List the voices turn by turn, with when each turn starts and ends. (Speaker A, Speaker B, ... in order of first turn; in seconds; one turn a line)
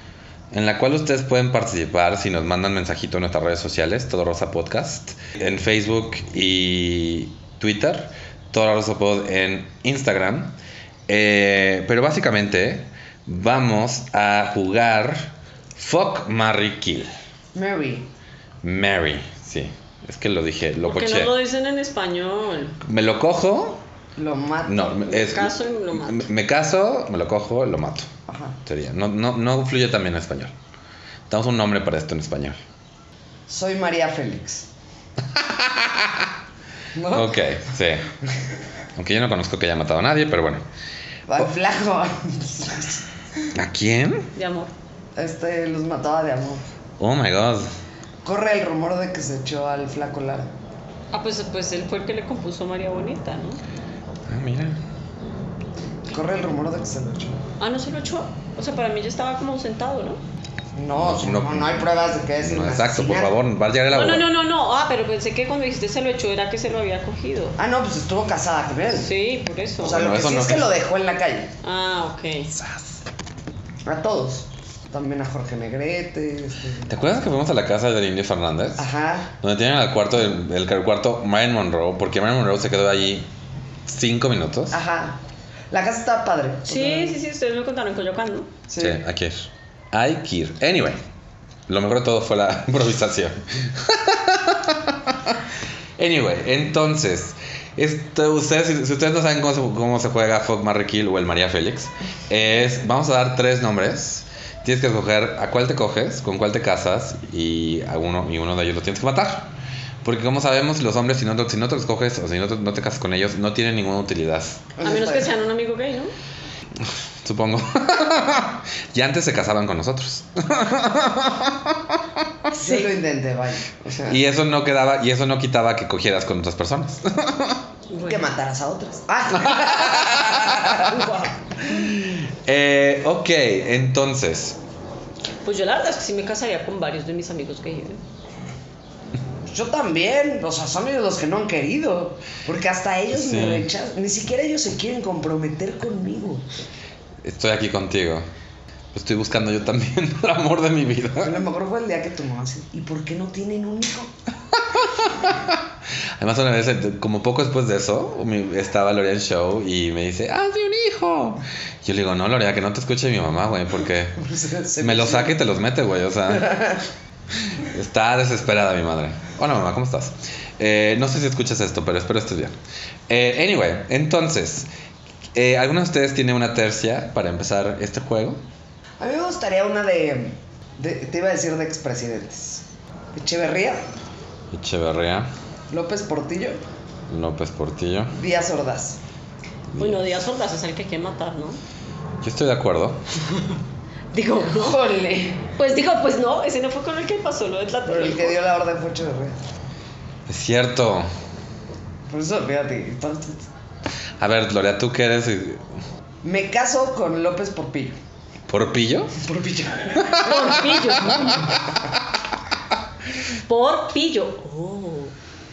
Speaker A: 0.5-10.6
Speaker A: 11.1-17.1
Speaker B: 17.5-18.1
Speaker A: 18.6-21.3
Speaker C: 20.8-22.8
Speaker A: 22.8-23.8
Speaker B: 24.2-25.1
Speaker A: 24.7-28.1
Speaker C: 25.0-26.3
Speaker B: 28.3-28.6
Speaker A: 28.7-30.5
Speaker A: 31.3-32.6
Speaker B: 33.5-34.7
Speaker A: 35.4-36.3
Speaker B: 36.9-37.4
Speaker A: 37.1-38.0
Speaker A: 39.0-40.6
Speaker B: 41.3-43.5
Speaker A: 43.5-44.3
Speaker C: 44.4-44.7
Speaker B: 45.2-46.6
Speaker A: 47.0-47.7
Speaker B: 48.2-50.5
Speaker C: 51.1-53.6
Speaker A: 54.3-54.8
Speaker B: 56.1-57.4
Speaker C: 57.6-60.2
Speaker B: 60.8-63.4
Speaker A: 61.0-61.9
Speaker A: 62.4-64.3
Speaker C: 63.9-67.6
Speaker B: 67.6-69.1
Speaker C: 68.9-70.0
Speaker B: 69.8-71.5
Speaker A: 69.8-70.7
Speaker C: 71.6-72.5
Speaker B: 73.8-77.0
Speaker A: 76.9-78.9
Speaker B: 78.8-79.3
Speaker A: 79.4-83.3
Speaker A: 83.9-84.8
Speaker B: 84.7-87.2
Speaker C: 86.7-88.5
Speaker B: 88.7-89.0
Speaker A: 88.8-91.0
Speaker A: 91.7-95.4
Speaker A: 96.0-109.5
Speaker A: 110.0-114.7
Speaker B: 114.8-115.3
Speaker C: 114.8-116.1
Speaker A: 116.8-122.0
Speaker C: 122.5-122.9
Speaker B: 122.5-124.2
Speaker A: 124.1-127.6
Speaker C: 127.9-128.3
Speaker B: 128.1-131.1
Speaker A: 129.5-130.8
Speaker C: 130.8-131.3
Speaker A: 131.7-134.6
Speaker C: 135.4-138.0
Speaker B: 139.5-146.6
Speaker A: 143.1-143.7
Speaker A: 147.2-148.3
Speaker A: 148.9-151.4
Speaker B: 151.2-154.1
Speaker A: 154.7-155.6
Speaker A: 156.2-164.2
Speaker B: 164.2-165.4
Speaker A: 164.8-166.6
Speaker B: 166.3-166.8
Speaker A: 167.5-172.6
Speaker A: 173.1-174.7
Speaker A: 175.3-178.4
Speaker B: 179.0-183.9
Speaker A: 184.5-185.3
Speaker B: 185.7-186.6
Speaker A: 187.1-188.1
Speaker B: 188.2-189.0
Speaker A: 189.7-190.1
Speaker C: 189.8-191.6
Speaker A: 192.2-193.0
Speaker C: 194.1-194.8
Speaker B: 194.5-195.5
Speaker C: 195.6-198.4
Speaker B: 197.9-199.4
Speaker A: 200.3-201.1
Speaker B: 202.1-203.4
Speaker A: 204.2-205.7
Speaker B: 206.2-208.0
Speaker A: 208.5-209.2
Speaker B: 209.2-210.3
Speaker A: 210.0-211.4
Speaker C: 210.2-211.5
Speaker C: 213.5-215.1